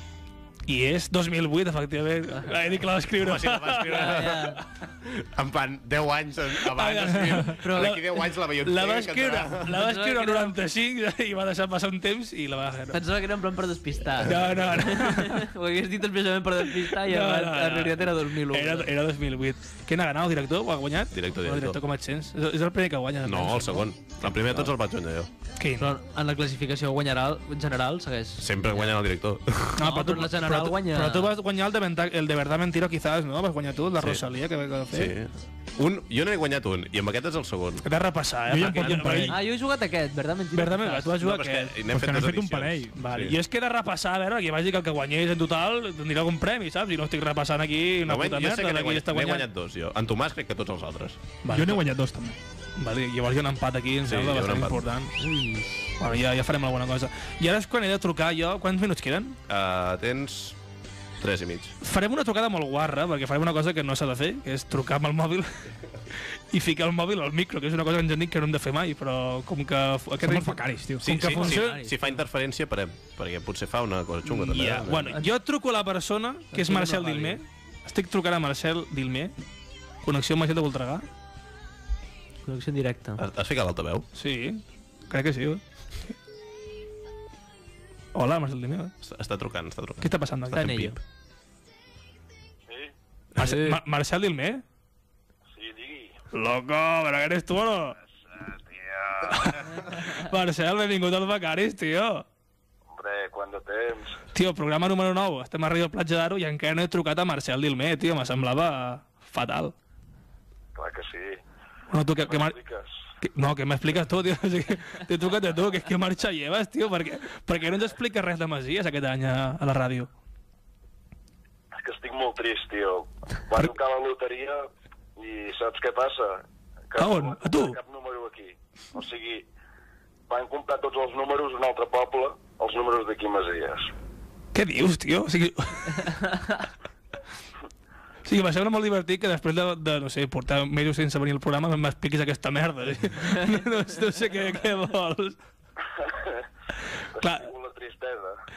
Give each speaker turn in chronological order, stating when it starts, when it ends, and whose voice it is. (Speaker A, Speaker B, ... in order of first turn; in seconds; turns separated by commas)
Speaker A: 0.7-4.4, Speaker B: 3.1-9.7, Speaker C: 3.9-4.6, Speaker A: 6.6-13.0, Speaker C: 7.6-8.0, Speaker C: 9.6-10.6, Speaker C: 12.9-18.9, Speaker B: 14.2-14.6, Speaker A: 14.2-15.4, Speaker A: 16.7-23.9, Speaker B: 21.1-21.8, Speaker B: 23.2-25.3, Speaker A: 25.6-25.9, Speaker C: 25.8-29.0, Speaker B: 28.4-29.8, Speaker A: 29.8-35.2, Speaker C: 29.8-31.3, Speaker B: 34.0-34.2, Speaker B: 34.9-37.8, Speaker A: 37.8-39.4, Speaker D: 38.5-39.4, Speaker C: 39.3-41.1, Speaker A: 40.5-41.8, Speaker B: 41.2-43.4, Speaker D: 41.9-43.0, Speaker A: 43.0-49.5, Speaker B: 48.0-51.2, Speaker A: 51.4-51.8, Speaker D: 51.5-52.4, Speaker A: 52.8-55.1, Speaker B: 54.0-54.9, Speaker C: 55.2-56.0, Speaker A: 56.0-59.4, Speaker B: 59.5-60.6, Speaker B: 61.2-61.7, Speaker A: 61.8-65.6, Speaker A: 66.5-71.8, Speaker D: 70.2-71.3, Speaker B: 71.0-75.2, Speaker C: 71.2-72.2, Speaker A: 74.2-79.3, Speaker C: 76.5-77.4, Speaker A: 80.0-81.1, Speaker C: 82.5-83.2, Speaker B: 83.2-84.0, Speaker A: 84.1-85.6, Speaker A: 88.1-88.9, Speaker B: 89.0-91.0, Speaker A: 90.0-90.9, Speaker C: 90.5-91.0, Speaker E: 92.7-92.9, Speaker A: 93.3-94.6, Speaker C: 93.4-93.8, Speaker E: 95.5-96.1, Speaker A: 96.3-98.0, Speaker E: 98.3-99.5, Speaker A: 99.2-102.2, Speaker E: 102.9-104.2, Speaker A: 104.3-109.7, Speaker E: 110.7-111.4, Speaker A: 111.9-112.5, Speaker E: 112.2-112.9, Speaker A: 113.2-120.1, Speaker E: 121.8-129.5, Speaker A: 127.0-127.8, Speaker E: 130.3-133.9, Speaker A: 134.5-136.6, Speaker A: 138.2-145.4, Speaker E: 146.0-146.4, Speaker E: 147.1-148.4, Speaker A: 147.2-147.5